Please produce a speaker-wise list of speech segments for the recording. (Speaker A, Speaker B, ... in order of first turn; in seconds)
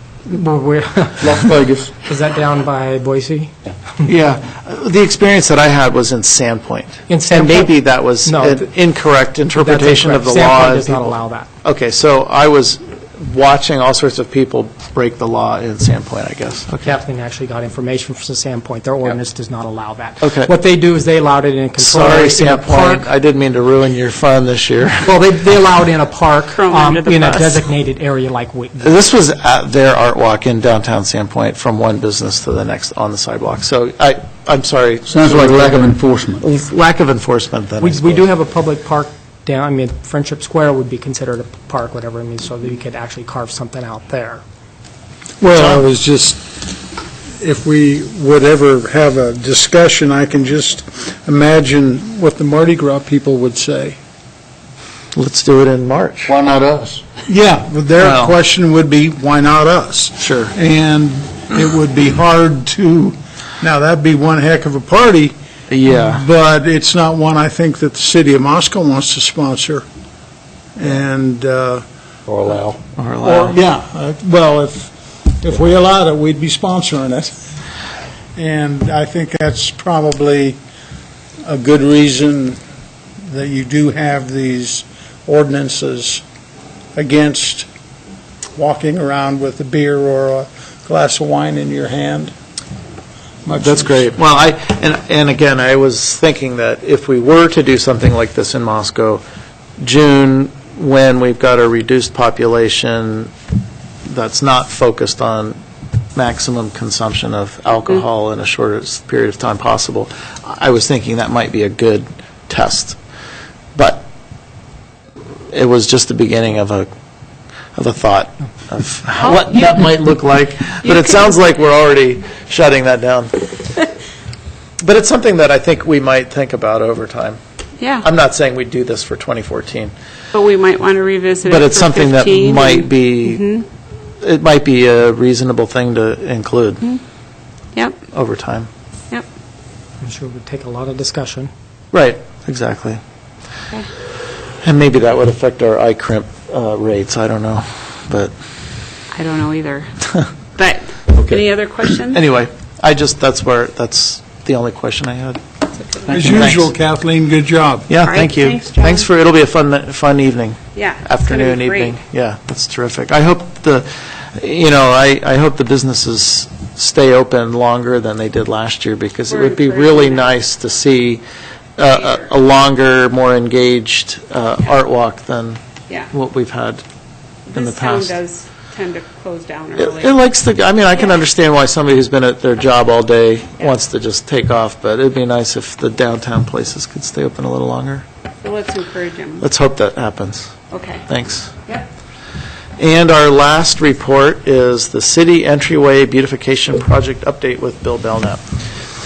Speaker A: 0.3-1.2, 2.1-3.5, 7.1-7.6, 9.6-11.5, 16.9-23.1, 25.1-28.9, 37.8-44.4, 140.0-141.5
Speaker B: 1.2-2.0, 35.1-36.4, 56.3-57.0
Speaker C: 4.1-16.9, 20.2-20.5, 21.8-25.1, 28.8-38.3, 45.5-45.8, 55.1-56.3, 58.0-58.4, 60.2-60.5, 65.7-66.2, 72.4-73.6, 93.6-99.2, 99.8-103.3, 104.1-105.6, 106.2-113.0, 113.8-114.1, 115.5-116.9, 117.8-123.6, 124.8-127.4, 128.0-129.9, 131.4-133.4, 134.2-136.8, 138.1-138.7, 141.9-143.0, 144.6-148.3, 151.2-151.4, 152.1-155.4, 156.1-156.7, 157.9-171.2, 171.8-175.6, 176.1-176.8, 177.5-178.2, 179.8-188.1, 189.4-190.5, 191.1-191.5, 192.8-198.4
Speaker D: 26.5-27.6, 119.2-119.7, 120.8-121.5, 127.8-128.1, 130.3-133.7, 137.8-138.0, 149.1-149.9, 150.6-152.2, 155.8-156.1, 158.0-159.1, 160.7-162.0, 169.3-170.4, 177.5-180.2, 188.4-189.5, 190.7-191.0
Speaker E: 45.4-46.4, 47.4-54.0, 57.3-65.3, 65.9-69.8, 70.8-71.8, 73.2-77.4, 78.4-80.6, 81.5-82.6, 83.2-86.2, 87.0-87.7, 88.6-92.3, 93.5-94.1, 156.1-157.9